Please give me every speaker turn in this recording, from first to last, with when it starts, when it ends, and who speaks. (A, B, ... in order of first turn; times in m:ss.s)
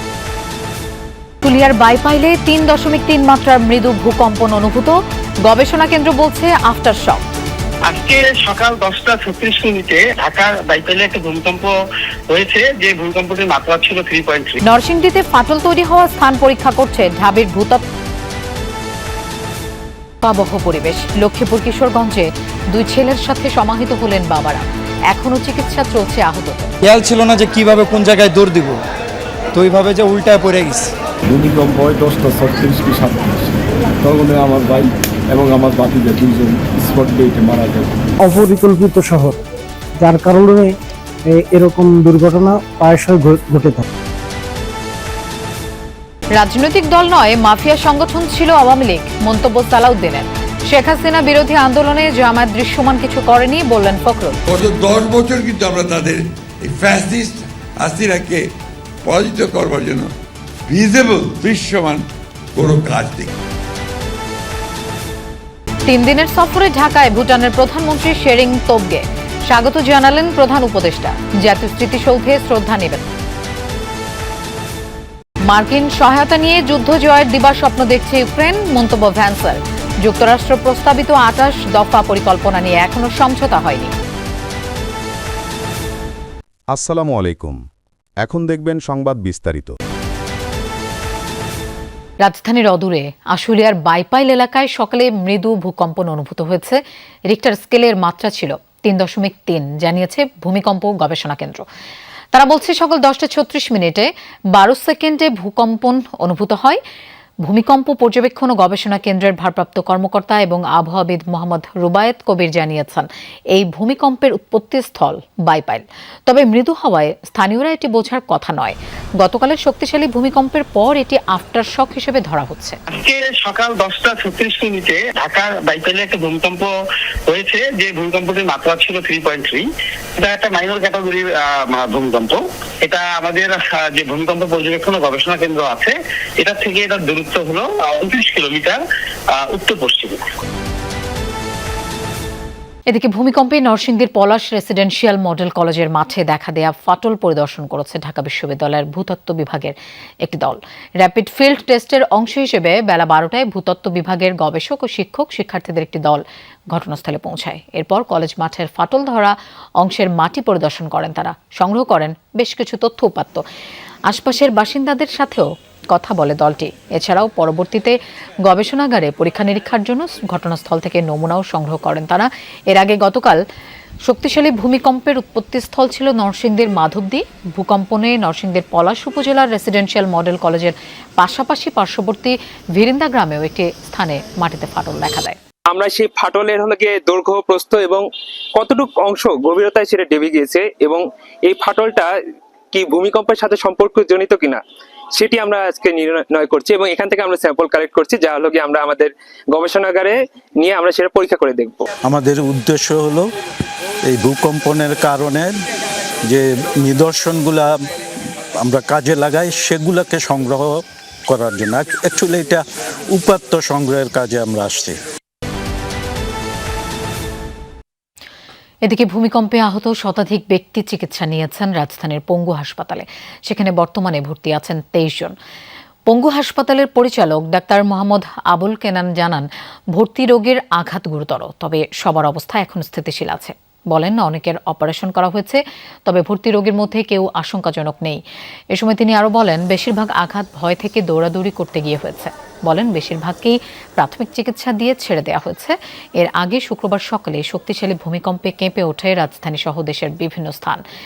0:01.4-0:07.2 A
0:07.9-0:11.7 B
0:12.3-0:14.6 B
0:14.6-0:17.8 A
0:20.2-0:26.7 A
0:26.8-0:28.8 C
0:29.5-0:30.9 C
0:31.3-0:38.0 D
0:38.2-0:39.4 E
0:40.0-0:40.7 E
0:41.3-0:43.8 E
0:46.3-0:54.4 A
0:54.5-0:58.4 F
0:59.0-1:00.1 F
1:00.7-1:02.0 F
1:02.6-1:03.3 F
1:05.9-1:13.1 A
1:15.5-1:23.9 A
1:26.7-1:27.6 G
1:28.2-1:29.8 G
1:32.2-1:41.6 A
1:42.3-1:46.8 A
1:47.5-2:02.8 A
2:02.9-2:06.7 B
2:07.3-2:18.8 B
2:19.3-2:20.2 B
2:22.9-2:43.4 A
2:44.1-2:53.4 A
2:54.0-3:05.4 A
3:05.7-3:08.0 H
3:08.6-3:12.1 H
3:12.7-3:14.6 H
3:15.2-3:21.8 H
3:22.1-3:23.3 I
3:24.1-3:25.5 I
3:26.3-3:27.7 I
3:28.6-3:32.6 I
3:33.2-3:35.0 I
3:38.8-3:45.3 A
3:46.1-3:58.2 A
3:58.7-4:10.8 A